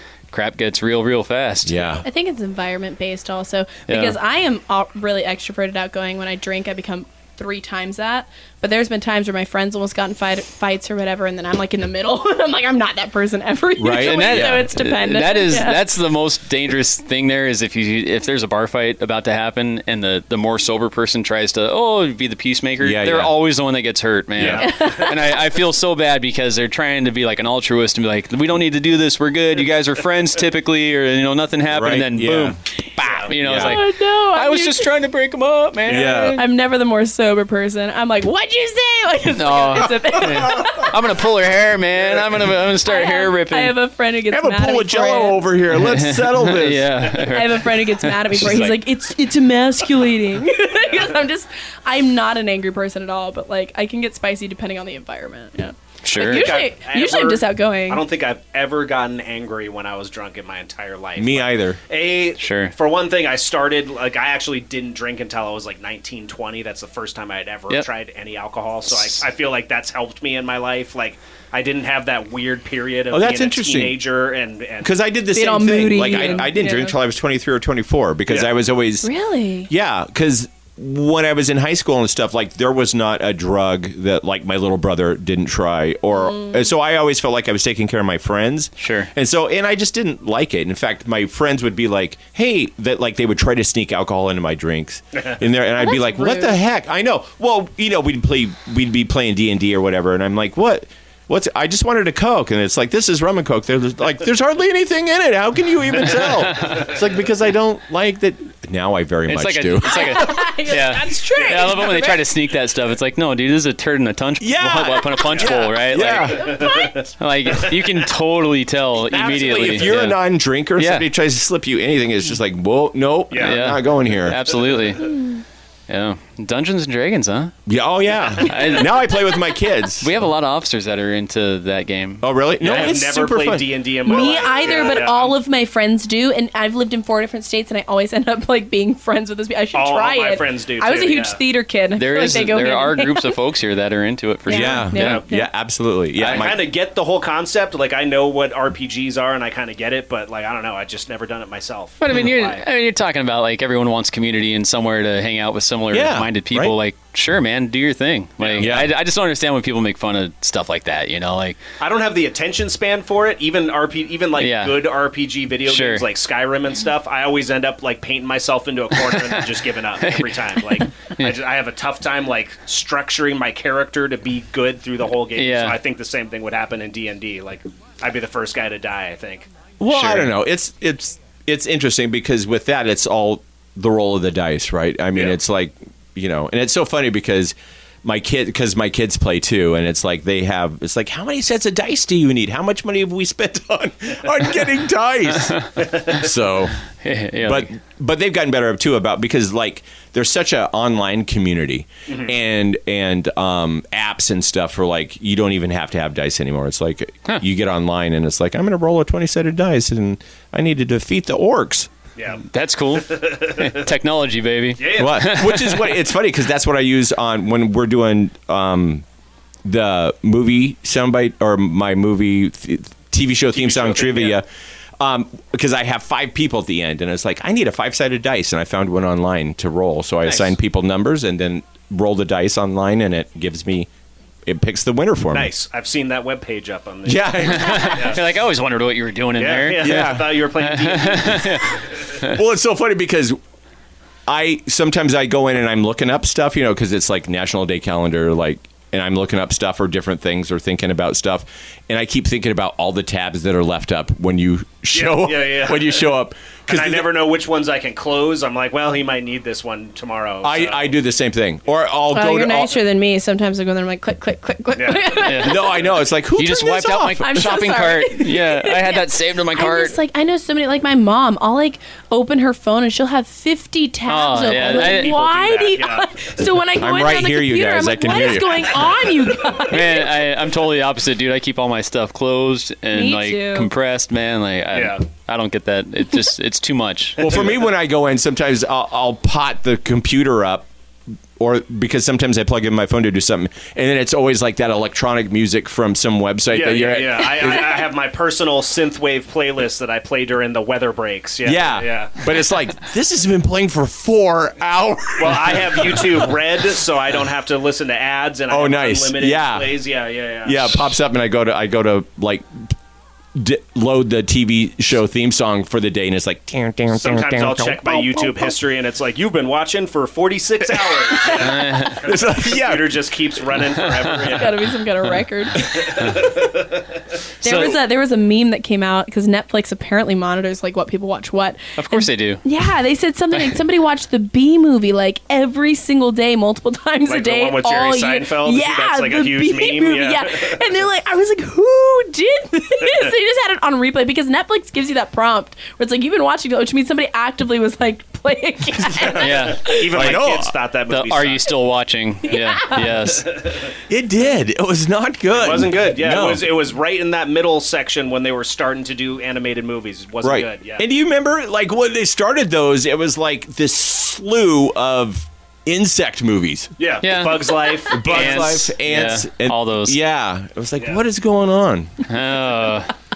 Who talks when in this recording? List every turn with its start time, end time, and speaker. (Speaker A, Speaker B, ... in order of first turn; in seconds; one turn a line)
Speaker A: 0.3-2.0
Speaker B: 1.6-2.0
Speaker C: 2.0-15.8
Speaker A: 3.9-4.2
Speaker B: 13.8-14.7
Speaker A: 13.9-36.5
Speaker B: 22.8-23.3
Speaker D: 24.4-25.0
Speaker C: 24.6-25.1
Speaker B: 31.7-32.6
Speaker D: 33.0-33.3
Speaker B: 33.4-33.8
Speaker C: 33.5-34.9
Speaker B: 35.9-36.4
Speaker C: 36.3-40.9
Speaker A: 39.4-43.8
Speaker C: 42.9-45.5
Speaker B: 44.3-47.0
Speaker A: 45.8-48.8
Speaker C: 47.1-58.0
Speaker D: 50.8-51.2
Speaker A: 56.0-56.6
Speaker D: 56.2-74.9
Speaker B: 61.2-61.8
Speaker A: 62.4-62.7
Speaker B: 73.1-74.0
Speaker B: 74.8-79.1
Speaker C: 75.3-77.0
Speaker C: 79.0-79.7
Speaker B: 79.7-110.2
Speaker C: 86.2-86.7
Speaker A: 88.8-89.1
Speaker C: 95.8-96.6
Speaker A: 106.3-106.9
Speaker A: 109.3-116.5
Speaker C: 109.8-112.2
Speaker B: 114.4-116.6
Speaker C: 116.3-117.1
Speaker D: 116.5-117.1
Speaker A: 117.2-120.2
Speaker B: 119.1-124.4
Speaker A: 120.8-121.1
Speaker D: 123.3-123.7
Speaker A: 123.4-125.3
Speaker A: 125.9-127.6
Speaker B: 127.7-130.1
Speaker A: 128.4-129.1
Speaker A: 130.0-132.8
Speaker B: 132.2-133.7
Speaker D: 132.6-135.4
Speaker C: 134.1-143.3
Speaker D: 139.7-141.4
Speaker A: 142.0-145.2
Speaker C: 144.5-145.5
Speaker B: 144.5-146.7
Speaker D: 145.0-145.2
Speaker D: 146.2-152.7
Speaker A: 152.0-161.6
Speaker B: 155.9-156.8
Speaker D: 158.4-158.7
Speaker B: 158.6-158.9
Speaker D: 161.8-179.5
Speaker A: 164.4-164.9
Speaker A: 165.7-166.1
Speaker A: 169.1-169.4
Speaker A: 170.0-170.3
Speaker A: 170.9-171.3
Speaker A: 175.4-175.8
Speaker B: 179.8-196.8
Speaker A: 179.9-180.3
Speaker A: 195.5-196.0
Speaker A: 197.0-197.7
Speaker B: 197.4-211.9
Speaker D: 202.1-202.3
Speaker D: 212.2-212.4
Speaker A: 212.5-216.0
Speaker D: 213.0-213.9
Speaker D: 214.8-215.3
Speaker B: 215.0-219.1
Speaker B: 219.7-224.5
Speaker D: 223.6-224.4
Speaker B: 225.0-233.9
Speaker B: 234.5-235.5
Speaker D: 235.3-238.2
Speaker B: 237.1-238.1
Speaker A: 237.5-242.4
Speaker D: 239.4-241.8
Speaker B: 239.8-240.3
Speaker B: 242.2-243.4
Speaker B: 244.3-257.1
Speaker D: 254.9-256.1
Speaker D: 256.7-260.9
Speaker B: 260.4-262.8
Speaker C: 262.1-265.9
Speaker D: 264.7-265.3
Speaker A: 265.2-265.6
Speaker B: 265.4-267.3
Speaker A: 266.4-270.0
Speaker C: 267.2-280.1
Speaker A: 274.1-275.2
Speaker D: 274.5-276.3
Speaker B: 276.8-279.1
Speaker A: 279.7-287.4
Speaker C: 282.9-283.7
Speaker D: 284.7-285.0
Speaker B: 287.2-290.7
Speaker D: 287.2-287.5
Speaker B: 291.4-297.8
Speaker D: 296.5-302.2
Speaker B: 301.4-306.4
Speaker D: 305.2-310.9
Speaker B: 308.5-309.7
Speaker B: 310.4-312.7
Speaker B: 313.4-318.3
Speaker D: 316.9-324.7
Speaker B: 320.8-321.2
Speaker A: 321.3-322.0
Speaker B: 322.0-323.1
Speaker A: 323.8-324.6
Speaker C: 324.3-325.9
Speaker D: 325.6-326.9
Speaker A: 326.0-326.3
Speaker A: 327.4-327.8
Speaker C: 327.4-349.6
Speaker A: 331.8-332.4
Speaker D: 337.1-340.6
Speaker D: 342.8-343.1
Speaker A: 349.1-350.2
Speaker D: 349.5-351.5
Speaker B: 349.9-350.5
Speaker A: 350.9-353.4
Speaker C: 352.3-353.1
Speaker D: 353.1-353.6
Speaker B: 353.9-356.5
Speaker D: 355.3-360.9
Speaker B: 360.2-366.7
Speaker D: 366.8-368.6
Speaker A: 367.0-370.0
Speaker B: 367.9-372.0
Speaker A: 372.1-372.9